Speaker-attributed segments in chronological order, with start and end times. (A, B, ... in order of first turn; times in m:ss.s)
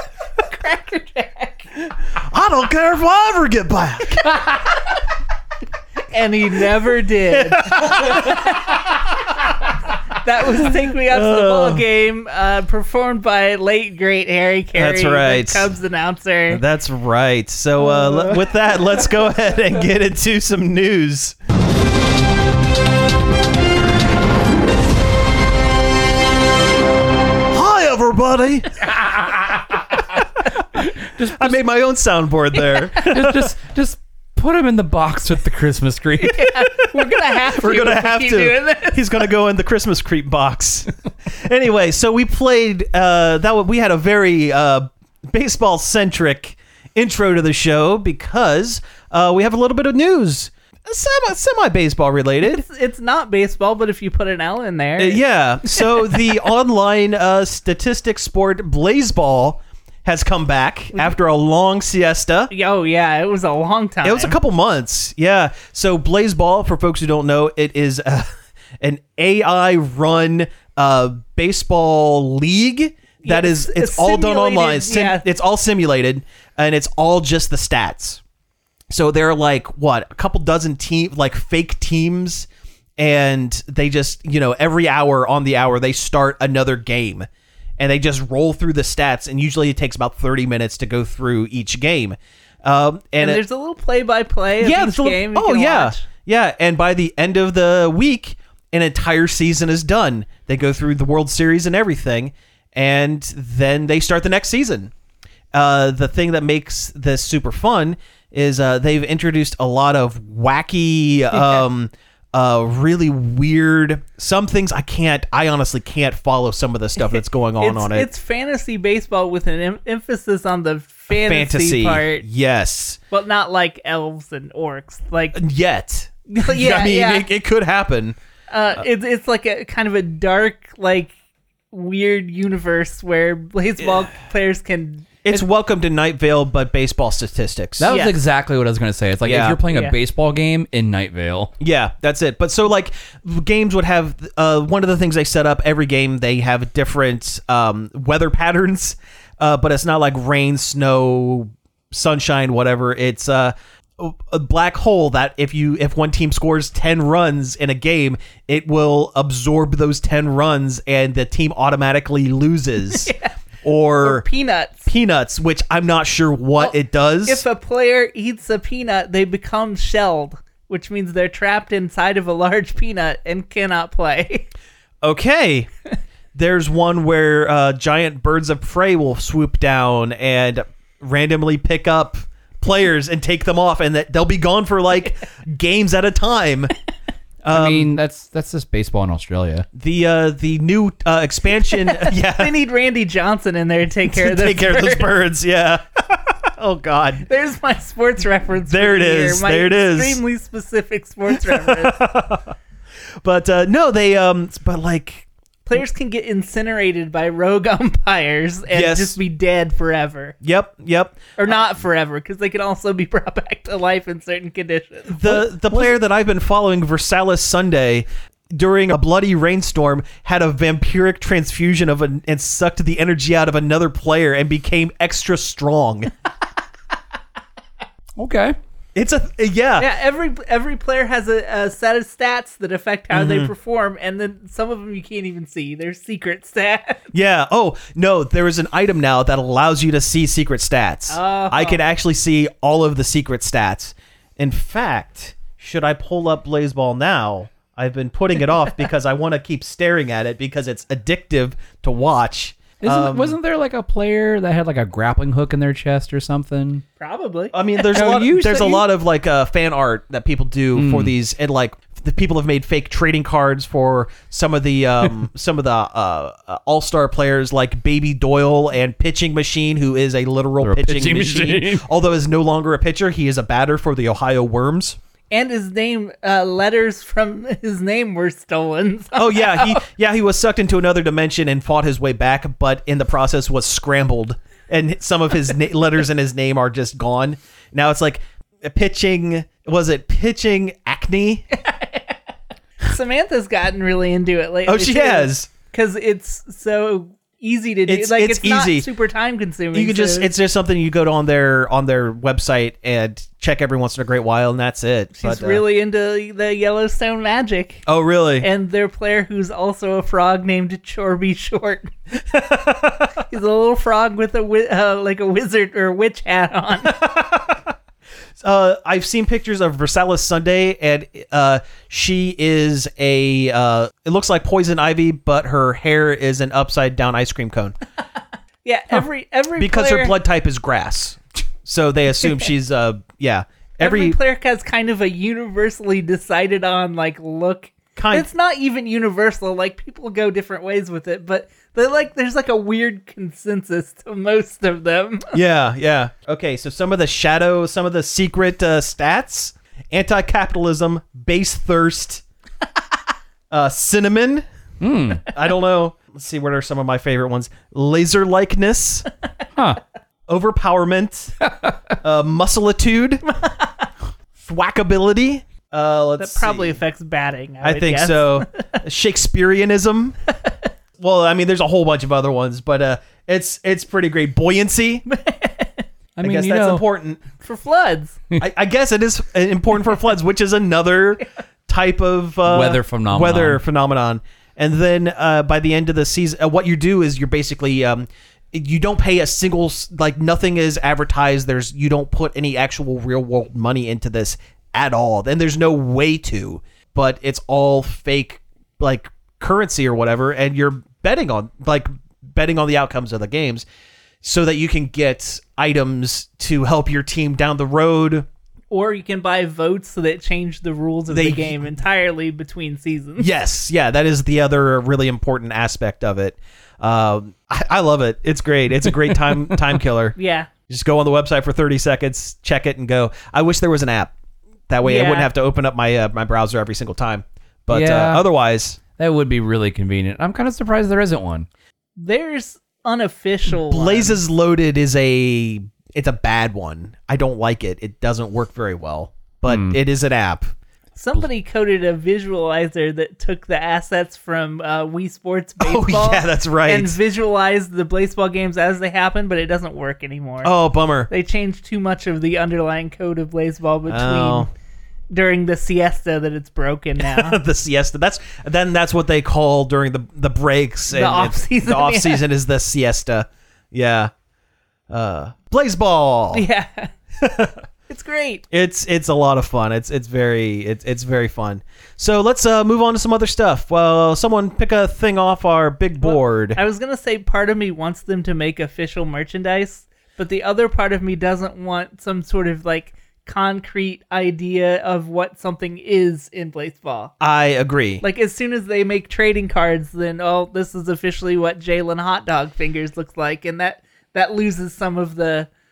0:00.4-0:01.6 A
0:02.1-0:04.4 B
0:06.1-0:08.7 A
0:07.3-0:08.4 B
0:10.2-0:16.6 A
0:11.1-0:11.8 B
0:14.8-0:15.7 B
0:16.5-0:21.4 B
0:27.5-0:28.9 B
0:30.8-0:31.6 C
0:31.3-0:33.5 B
0:33.0-0:36.4 C
0:36.2-0:39.2 A
0:36.8-0:52.6 B
0:52.4-0:56.2 A
0:55.0-1:02.5 B
1:02.5-1:04.4 A
1:04.0-1:08.3 B
1:08.8-1:18.2 B
1:13.2-1:15.3 A
1:18.9-1:27.3 B
1:27.8-1:33.4 B
1:33.2-1:36.0 A
1:34.6-1:44.9 B
1:45.5-1:58.1 B
1:51.3-1:51.6 A
1:57.0-2:02.2 A
2:01.1-2:03.0 B
2:03.1-2:05.4 A
2:05.3-2:08.2 B
2:06.3-2:07.3 A
2:08.5-2:11.1 A
2:11.7-2:15.2 A
2:13.8-2:14.1 B
2:15.2-2:17.9 B
2:17.8-2:21.5 C
2:17.9-2:18.2 A
2:19.2-2:19.6 B
2:19.7-2:20.0 A
2:21.6-2:43.1 B
2:42.9-2:43.4 A
2:43.6-2:44.3 B
2:44.0-2:44.9 A
2:44.9-2:47.4 B
2:46.6-2:54.5 A
2:55.0-2:55.7 B
2:56.4-3:06.7 B
3:07.4-3:07.9 B
3:07.5-3:09.7 C
3:09.7-3:12.5 B
3:11.7-3:15.1 A
3:14.1-3:17.2 B
3:17.2-3:22.0 A
3:18.7-3:20.2 B
3:21.3-3:22.5 B
3:23.2-3:25.3 B
3:25.7-3:30.4 A
3:28.7-3:29.2 B
3:30.4-3:31.5 B
3:31.4-3:35.8 A
3:35.1-3:46.1 B
3:48.2-3:48.6 C
3:49.0-3:49.9 B
3:49.8-3:57.1 A
3:53.1-3:53.5 B
3:57.1-4:13.4 B
4:01.1-4:01.8 A
4:12.8-4:16.8 C
4:17.0-4:17.5 A
4:17.5-4:35.0 B
4:17.9-4:18.9 C
4:20.8-4:21.1 C
4:30.6-4:31.8 C
4:35.3-4:39.8 A
4:39.2-4:51.4 B
4:51.5-4:52.2 A
4:52.8-5:00.3 A
4:54.7-4:55.5 B
4:57.9-4:58.9 B
4:59.7-5:05.6 B
5:05.2-5:07.8 A
5:07.9-5:08.5 B
5:08.4-5:11.9 A
5:12.3-5:13.1 B
5:13.1-5:17.1 A
5:16.8-5:17.7 B
5:18.4-5:27.8 B
5:28.6-5:30.2 A
5:29.6-5:34.2 B
5:33.8-5:45.4 A
5:38.0-5:38.3 B
5:45.3-5:52.2 B
5:53.5-5:54.4 B
5:54.8-5:55.3 C
5:55.3-5:59.1 B
6:00.3-6:01.4 B
6:01.5-6:01.8 C
6:02.0-6:03.2 B
6:04.4-6:06.8 B
6:06.2-6:08.6 A
6:07.6-6:10.2 B
6:11.0-6:15.0 B
6:15.1-6:15.9 A
6:16.2-6:16.8 C
6:16.2-6:17.2 B
6:17.4-6:18.2 A
6:18.4-6:43.6 B
6:22.4-6:23.6 C
6:44.2-6:48.3 B
6:48.7-6:53.3 A
6:51.1-6:51.6 B
6:53.2-7:00.2 B
7:00.2-7:00.5 A
7:00.7-7:04.1 B
7:04.7-7:08.8 B
7:04.8-7:05.3 A
7:07.7-7:08.2 C
7:09.0-7:11.5 C
7:12.0-7:14.2 A
7:13.5-7:20.5 B
7:19.5-7:19.8 C
7:21.0-7:30.5 A
7:25.6-7:27.0 B
7:30.4-7:31.1 B
7:31.1-7:34.5 A
7:33.9-7:34.5 B
7:35.1-7:37.4 A
7:37.0-7:44.1 B
7:40.9-7:42.2 A
7:44.9-7:46.4 B
7:46.3-7:46.9 A
7:47.2-7:47.6 B
7:47.9-7:48.4 A
7:48.5-7:56.6 B
7:56.0-8:07.1 A
8:07.2-8:08.0 B
8:08.0-8:15.5 A